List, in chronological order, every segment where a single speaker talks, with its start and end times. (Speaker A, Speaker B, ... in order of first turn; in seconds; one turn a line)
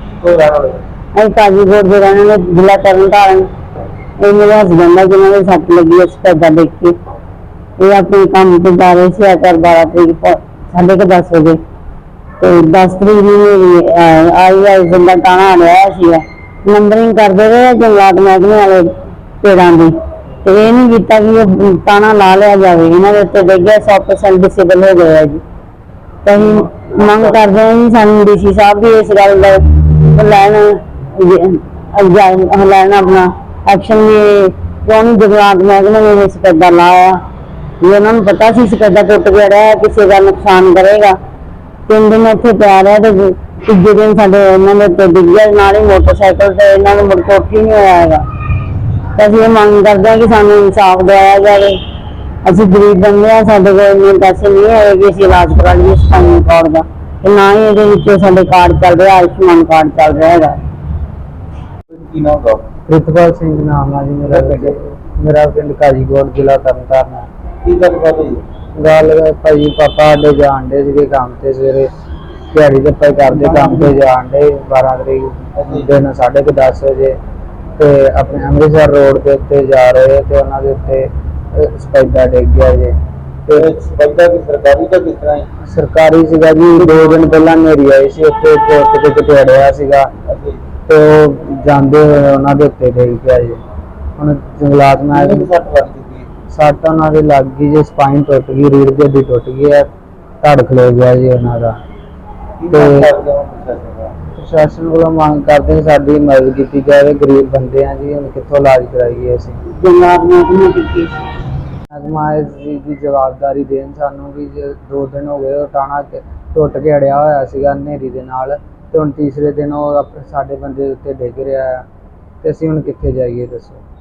Speaker A: 0.2-0.8
Speaker B: 1.1-3.5
Speaker B: 4.2-7.0
Speaker B: 7.8-11.6
Speaker B: 12.4-25.4
Speaker B: 26.2-37.3
Speaker A: 26.5-26.9
Speaker B: 37.8-41.2
Speaker B: 41.9-48.2
Speaker B: 49.1-51.8
Speaker B: 52.4-60.6
Speaker A: 61.9-62.6
Speaker C: 62.9-67.3
Speaker A: 64.3-64.8
Speaker A: 67.6-68.4
Speaker C: 68.8-71.9
Speaker C: 72.5-77.2
Speaker A: 73.5-73.9
Speaker A: 75.6-75.9
Speaker C: 77.8-83.0
Speaker C: 83.5-83.7
Speaker A: 83.5-85.5
Speaker C: 85.6-90.1
Speaker A: 86.8-87.4
Speaker A: 90.3-90.6
Speaker C: 90.9-93.6
Speaker C: 94.2-95.5
Speaker A: 95.1-96.3
Speaker C: 96.5-99.9
Speaker C: 100.4-101.8
Speaker A: 102.6-104.1
Speaker C: 102.7-103.1
Speaker C: 104.4-109.6
Speaker B: 109.7-111.3
Speaker C: 111.9-121.8
Speaker C: 122.4-123.8